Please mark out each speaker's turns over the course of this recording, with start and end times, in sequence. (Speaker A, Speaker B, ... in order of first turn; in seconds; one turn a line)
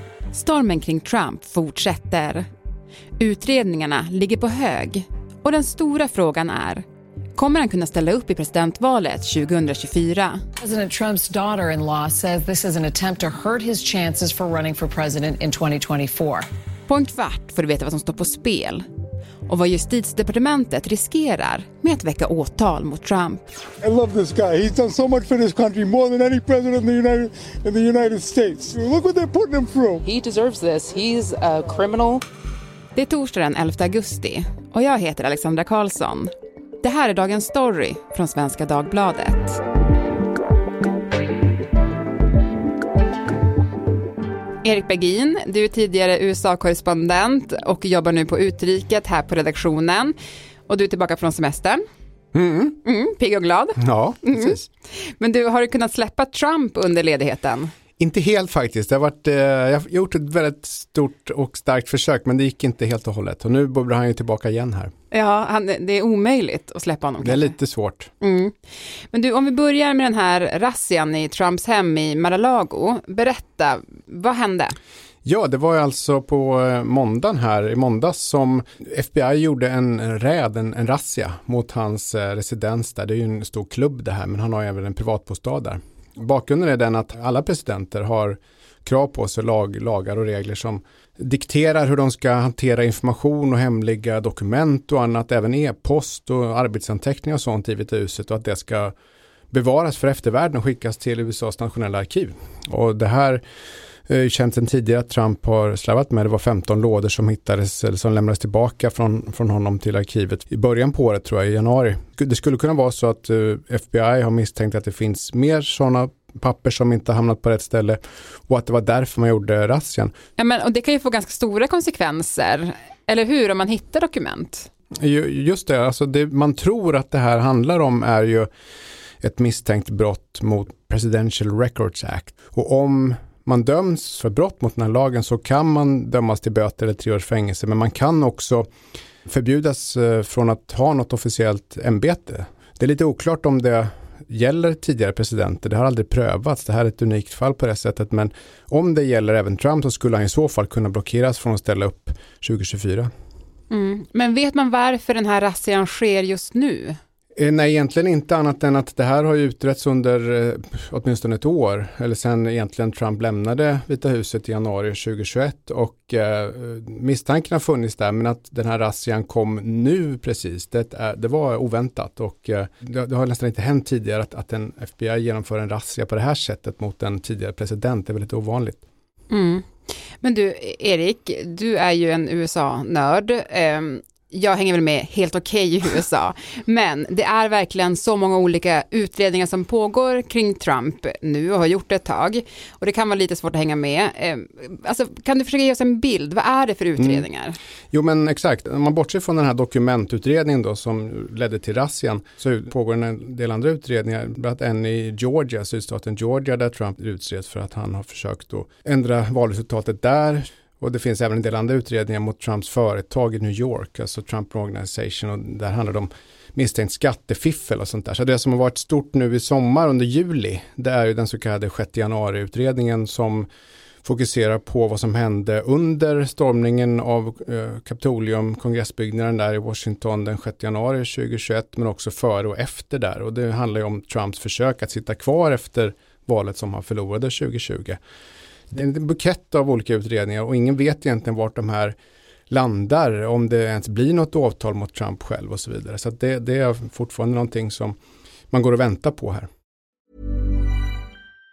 Speaker A: 0.3-2.5
Speaker A: 3.2-6.8
Speaker A: 7.4-10.4
Speaker B: 10.6-16.4
Speaker A: 16.9-18.9
Speaker A: 19.5-23.4
Speaker C: 23.8-30.1
Speaker D: 30.1-32.2
Speaker A: 32.9-39.6
Speaker A: 44.6-50.1
Speaker A: 50.7-51.8
Speaker E: 52.3-52.8
Speaker A: 52.8-57.7
Speaker E: 53.8-54.6
Speaker E: 58.0-64.9
Speaker A: 65.1-67.5
Speaker E: 67.2-68.1
Speaker A: 68.2-68.5
Speaker A: 69.1-74.8
Speaker E: 75.2-98.9
Speaker E: 99.5-103.4
Speaker E: 104.1-120.1
Speaker A: 120.4-124.7
Speaker E: 125.0-128.5
Speaker E: 129.2-138.7
Speaker E: 139.2-153.1
Speaker A: 153.7-157.0
Speaker E: 157.4-178.8
Speaker A: 179.3-179.7
Speaker A: 180.2-197.6
Speaker E: 197.0-197.2
Speaker E: 197.9-223.5
Speaker E: 224.0-238.0
Speaker E: 238.7-241.9
Speaker E: 242.5-248.0
Speaker E: 248.5-249.5